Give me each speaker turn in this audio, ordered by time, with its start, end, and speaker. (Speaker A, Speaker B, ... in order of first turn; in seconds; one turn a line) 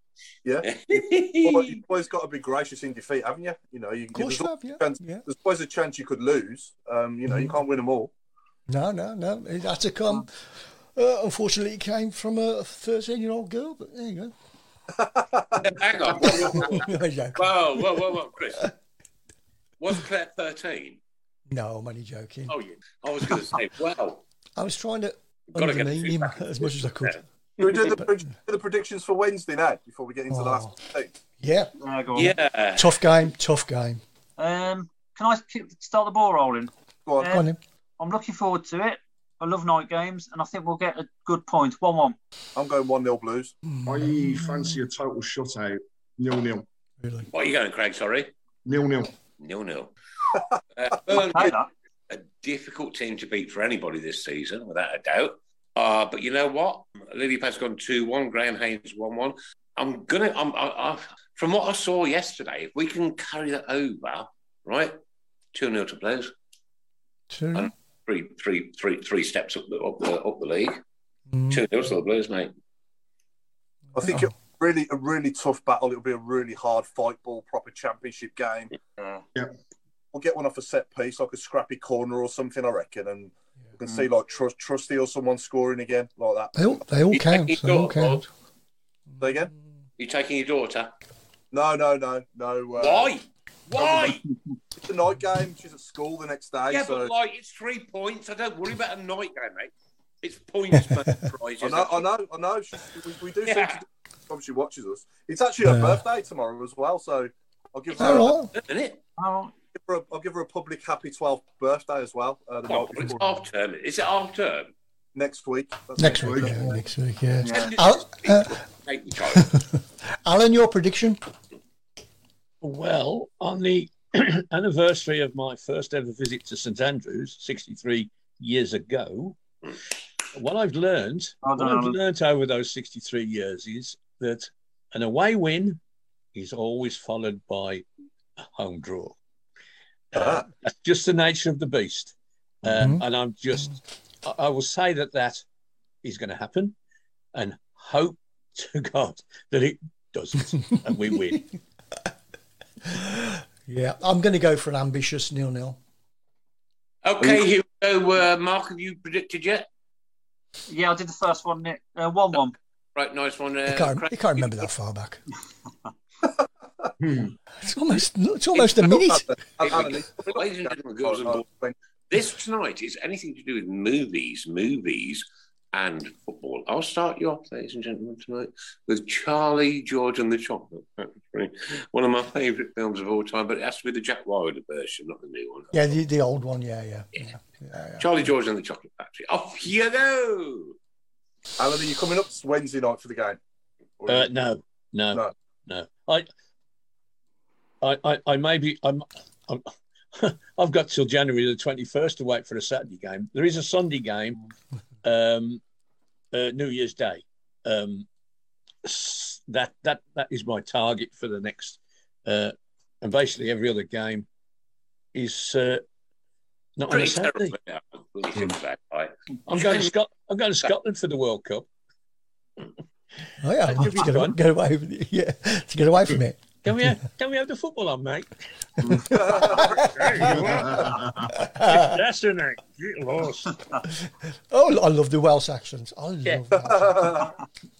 Speaker A: 0.5-8.1
Speaker B: 0.6-1.8
Speaker C: 4.2-5.2
Speaker C: 7.3-7.5
Speaker C: 8.7-10.3
Speaker C: 10.9-14.3
Speaker A: 15.0-16.5
Speaker B: 15.6-18.7
Speaker C: 16.2-18.7
Speaker B: 19.8-21.0
Speaker C: 21.5-22.5
Speaker B: 22.5-24.2
Speaker C: 24.6-27.2
Speaker B: 25.5-27.9
Speaker A: 27.6-31.1
Speaker C: 30.3-30.8
Speaker C: 31.4-31.7
Speaker D: 31.8-32.4
Speaker B: 32.1-33.0
Speaker C: 32.8-34.0
Speaker D: 34.4-37.5
Speaker A: 37.1-37.4
Speaker C: 37.2-37.6
Speaker D: 38.0-42.2
Speaker A: 42.5-43.5
Speaker C: 43.7-44.8
Speaker E: 43.9-46.7
Speaker C: 47.0-47.3
Speaker B: 47.3-48.3
Speaker E: 48.6-49.1
Speaker B: 49.4-49.9
Speaker B: 50.8-51.6
Speaker D: 51.1-51.7
Speaker B: 52.1-65.0
Speaker B: 65.5-66.3
Speaker C: 67.3-67.7
Speaker B: 67.5-70.8
Speaker C: 71.3-71.7
Speaker B: 71.5-72.5
Speaker C: 74.0-74.3
Speaker A: 74.0-78.7
Speaker D: 79.0-79.2
Speaker A: 80.1-86.6
Speaker C: 86.5-88.3
Speaker B: 87.1-88.3
Speaker C: 89.1-89.8
Speaker A: 89.2-89.5
Speaker B: 90.0-90.9
Speaker A: 91.5-93.1
Speaker B: 92.8-94.2
Speaker A: 93.8-94.2
Speaker A: 94.8-97.1
Speaker B: 96.7-99.7
Speaker B: 100.2-102.1
Speaker C: 100.8-101.2
Speaker A: 101.6-108.4
Speaker B: 103.5-103.8
Speaker C: 105.6-106.0
Speaker C: 108.0-108.5
Speaker B: 108.0-109.0
Speaker D: 109.2-109.5
Speaker A: 109.7-113.3
Speaker B: 112.7-114.7
Speaker A: 115.2-116.8
Speaker C: 116.0-118.6
Speaker E: 116.2-116.6
Speaker D: 117.4-117.7
Speaker B: 117.5-119.5
Speaker C: 119.3-121.2
Speaker F: 122.6-129.4
Speaker F: 130.3-135.8
Speaker D: 131.4-132.0
Speaker F: 136.3-137.8
Speaker F: 138.4-139.2
Speaker F: 140.1-145.4
Speaker A: 140.2-140.4
Speaker C: 142.7-143.1
Speaker F: 146.0-146.8
Speaker F: 147.3-151.4
Speaker C: 152.9-155.8
Speaker B: 157.1-159.7
Speaker D: 160.7-162.6
Speaker B: 162.9-164.7
Speaker C: 163.7-165.2
Speaker E: 167.0-167.3
Speaker C: 167.6-169.3
Speaker A: 168.8-171.8
Speaker B: 169.6-171.4
Speaker B: 172.1-186.0
Speaker C: 185.7-188.1
Speaker B: 188.0-190.8
Speaker A: 191.6-193.4
Speaker A: 194.0-194.3
Speaker F: 194.1-196.3
Speaker F: 197.8-204.4
Speaker F: 205.0-205.6
Speaker F: 206.3-208.1
Speaker F: 208.8-214.3
Speaker F: 215.1-215.8
Speaker F: 216.8-217.6
Speaker B: 216.9-219.9
Speaker F: 219.5-221.7
Speaker C: 223.4-226.4
Speaker F: 223.7-224.4
Speaker F: 226.6-228.3
Speaker F: 228.8-231.1
Speaker A: 229.1-229.9
Speaker E: 230.2-231.3
Speaker C: 231.4-232.0
Speaker F: 231.6-233.6
Speaker C: 234.5-237.3
Speaker A: 236.6-237.3